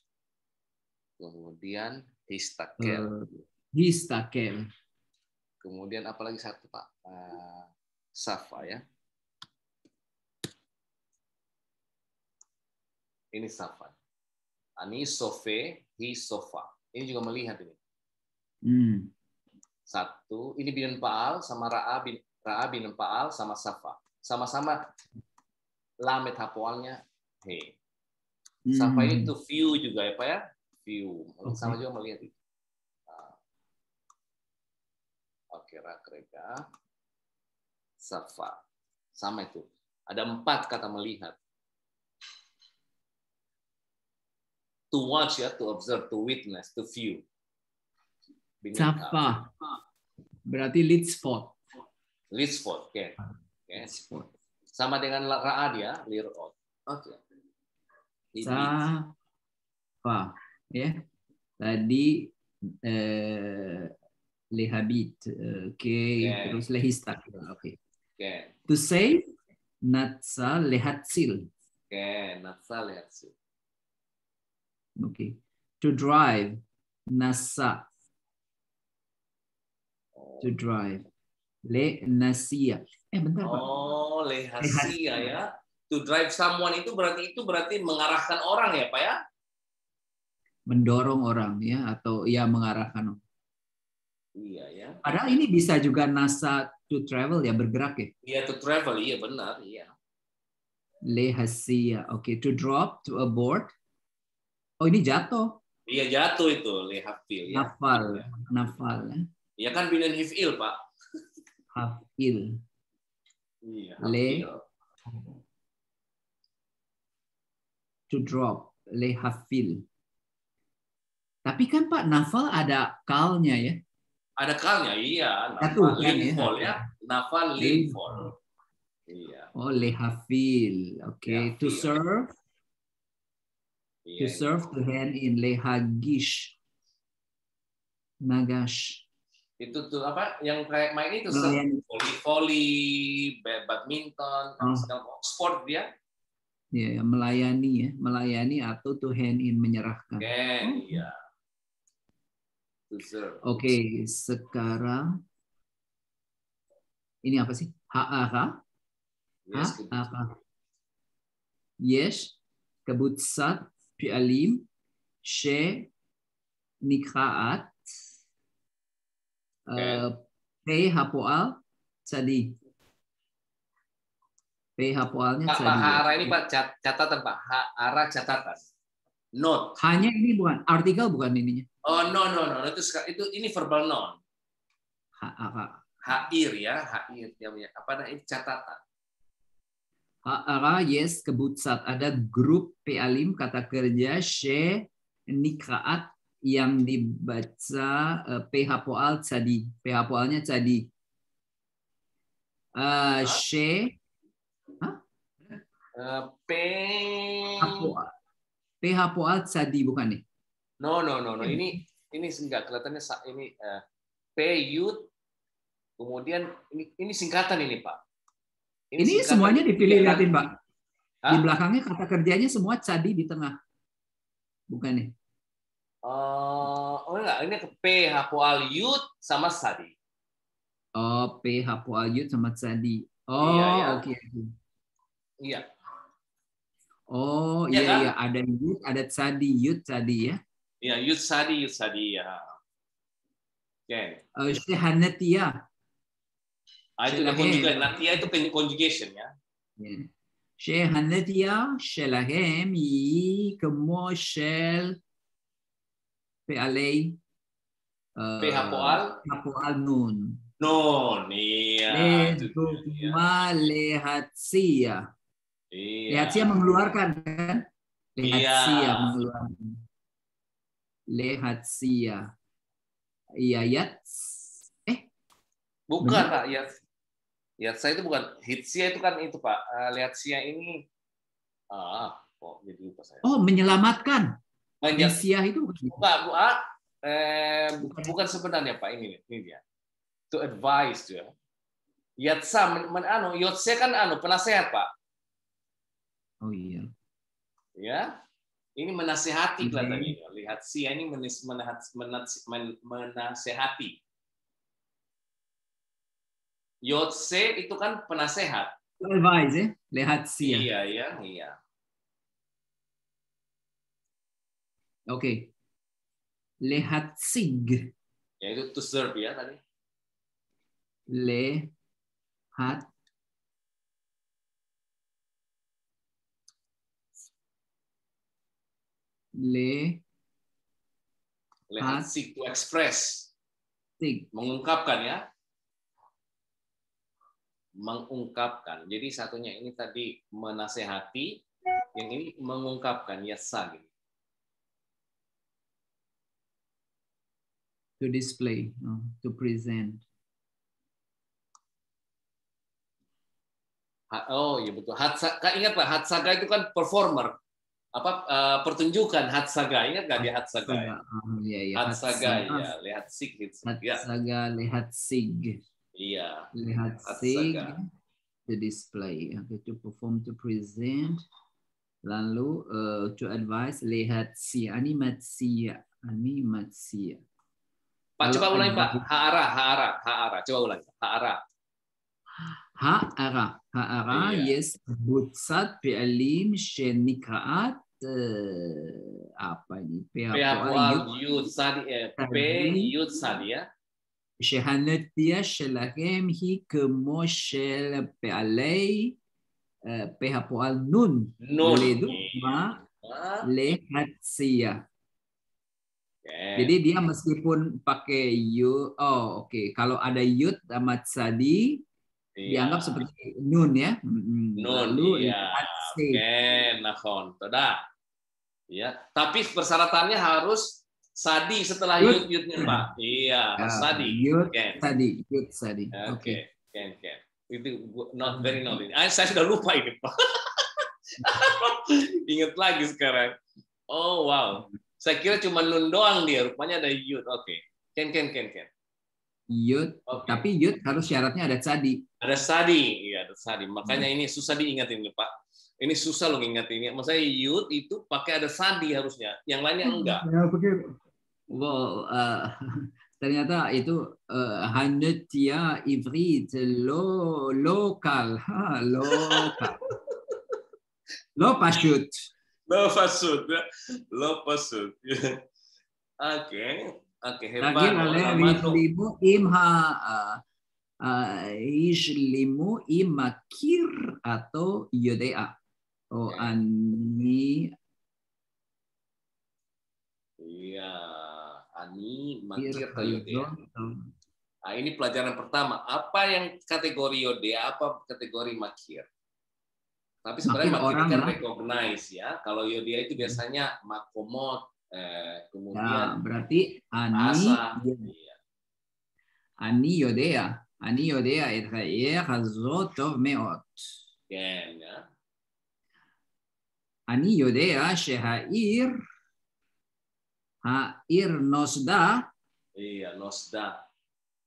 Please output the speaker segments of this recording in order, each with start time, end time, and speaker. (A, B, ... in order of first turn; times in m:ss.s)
0:01.2-0:03.1 A
0:02.8-0:04.7 B
0:05.6-0:08.8 A
0:13.3-0:13.9 A
0:14.8-0:17.8 A
0:18.6-0:19.1 B
0:19.9-0:24.8 A
0:26.0-0:27.8 A
0:28.6-0:29.3 B
0:28.7-0:32.3 A
0:31.4-0:31.8 B
0:33.1-0:33.4 A
0:35.5-0:36.6 A
0:38.0-0:38.6 A
0:39.2-0:41.4 A
0:44.9-0:47.2 A
0:48.6-0:49.4 A
0:48.8-0:49.6 B
0:50.5-0:51.6 B
0:52.3-0:53.9 A
0:53.8-0:54.3 B
0:54.8-0:57.2 A
0:58.3-0:58.8 A
0:58.4-0:59.1 B
1:00.0-1:00.9 B
1:01.6-1:02.3 B
1:02.8-1:03.9 B
1:04.5-1:07.8 B
1:06.2-1:06.6 A
1:08.2-1:08.5 A
1:08.7-1:09.2 B
1:09.8-1:11.5 B
1:11.9-1:13.3 A
1:15.0-1:17.8 B
1:20.2-1:20.5 A
1:20.4-1:21.0 B
1:21.7-1:23.6 B
1:23.4-1:29.2 A
1:24.6-1:25.3 B
1:30.7-1:33.2 B
1:34.4-1:35.0 A
1:35.0-1:38.1 B
1:38.2-1:39.9 A
1:41.1-1:43.7 B
1:44.8-1:45.6 B
1:45.8-1:48.3 A
1:47.5-1:49.2 B
1:49.6-1:50.8 A
1:51.7-1:52.6 B
1:53.6-1:54.6 A
1:54.0-1:54.5 B
1:55.1-1:55.4 B
1:58.1-1:59.8 B
2:01.4-2:03.8 B
2:04.4-2:08.2 A
2:05.6-2:06.8 B
2:07.6-2:08.3 B
2:09.1-2:09.5 A
2:09.5-2:12.3 B
2:11.2-2:12.0 A
2:14.0-2:14.7 A
2:14.2-2:16.5 B
2:18.2-2:19.0 B
2:19.6-2:25.9 A
2:21.3-2:21.8 B
2:24.6-2:24.9 B
2:26.7-2:31.0 B
2:30.2-2:31.2 A
2:32.9-2:33.7 A
2:33.4-2:35.1 B
2:37.2-2:38.6 B
2:39.5-2:40.1 A
2:39.5-2:40.3 B
2:41.8-2:44.6 B
2:45.2-2:45.9 B
2:46.8-2:47.8 B
2:49.7-2:52.5 B
2:49.8-2:50.0 A
2:54.8-2:56.3 B
2:55.4-2:58.6 A
2:59.4-2:59.8 A
2:59.8-3:01.6 B
3:01.8-3:04.2 A
3:05.2-3:05.8 B
3:06.0-3:08.8 A
3:10.2-3:20.9 B
3:22.8-3:24.0 B
3:24.8-3:25.6 B
3:26.0-3:27.9 A
3:27.6-3:28.1 B
3:28.8-3:30.2 B
3:30.8-3:33.8 A
3:31.4-3:31.8 B
3:34.4-3:35.1 A
3:36.0-3:38.0 A
3:38.9-3:40.3 A
3:39.0-3:40.5 B
3:41.3-3:43.5 B
3:44.7-3:45.1 B
3:46.0-3:49.9 A
3:51.0-3:54.5 B
3:53.4-3:54.0 A
3:57.1-4:00.4 B
3:57.7-3:58.1 A
4:00.8-4:02.5 A
4:03.9-4:04.3 A
4:04.4-4:05.6 B
4:07.0-4:09.3 A
4:07.1-4:08.0 B
4:09.8-4:15.0 B
4:16.5-4:17.2 B
4:18.2-4:20.4 B
4:18.4-4:19.2 A
4:20.6-4:23.2 A
4:21.9-4:25.1 B
4:25.7-4:26.8 A
4:26.1-4:27.6 B
4:28.2-4:29.8 B
4:28.2-4:29.1 A
4:31.1-4:32.3 B
4:33.4-4:35.1 B
4:35.9-4:36.7 A
4:36.0-4:36.3 B
4:37.6-4:40.8 A
4:41.7-4:43.2 A
4:43.2-4:44.3 B
4:44.8-4:45.2 A
4:45.0-4:46.0 B
4:46.0-4:49.6 A
4:47.8-4:48.1 B
4:50.3-4:51.3 A
4:52.2-4:54.9 A
4:56.4-4:56.9 B
4:57.8-4:58.1 A
4:58.8-5:04.0 A
4:59.6-5:00.1 B
5:06.8-5:08.7 A
5:09.0-5:10.7 B
5:10.4-5:11.6 A
5:15.1-5:15.5 B
5:16.6-5:17.9 B
5:18.4-5:19.6 A
5:21.1-5:21.7 B
5:22.6-5:22.8 B
5:29.4-5:30.0 B
5:31.7-5:33.3 A
5:31.8-5:32.1 B
5:34.0-5:34.3 B
5:34.3-5:35.2 A
5:37.8-5:41.4 A
5:41.9-5:43.8 A
5:48.0-5:50.0 B
5:54.1-5:57.4 A
5:58.0-6:00.9 A
6:00.2-6:02.7 B
6:01.8-6:04.0 A
6:03.6-6:05.6 B
6:06.0-6:06.5 A
6:06.6-6:07.8 B
6:07.0-6:07.8 A
6:08.5-6:11.2 B
6:12.0-6:17.2 B
6:18.2-6:21.4 A
6:18.2-6:19.0 B
6:22.8-6:31.1 B
6:24.1-6:24.5 A
6:30.3-6:33.6 A
6:32.2-6:32.9 B
6:34.4-6:39.2 B
6:39.8-6:42.8 B
6:41.4-6:43.5 A
6:43.4-6:44.8 B
6:46.2-6:46.7 A
6:46.6-6:51.8 B
6:52.4-6:53.0 A
6:52.5-6:56.2 B
6:54.6-6:57.8 A
6:58.7-7:04.8 A
7:02.0-7:02.8 B
7:03.6-7:06.4 B
7:05.9-7:10.6 A
7:08.3-7:08.8 B
7:11.2-7:13.3 A
7:13.9-7:18.7 A
7:19.5-7:22.0 B
7:20.1-7:20.5 A
7:22.2-7:30.2 A
7:29.8-7:31.0 B
7:31.5-7:39.8 B
7:39.1-7:39.7 A
7:41.4-7:42.1 B
7:42.7-7:45.4 A
7:46.2-7:48.8 A
7:47.6-7:50.4 B
7:51.0-7:55.5 B
7:56.1-7:57.7 B
7:56.3-7:56.6 A
8:00.4-8:03.5 A
8:02.6-8:04.0 B
8:04.6-8:09.0 A
8:10.2-8:16.2 A
8:10.4-8:11.4 B
8:15.7-8:18.1 B
8:17.1-8:18.4 A
8:19.6-8:23.8 B
8:24.3-8:25.0 A
8:27.1-8:28.9 B
8:30.6-8:32.3 B
8:32.8-8:33.8 A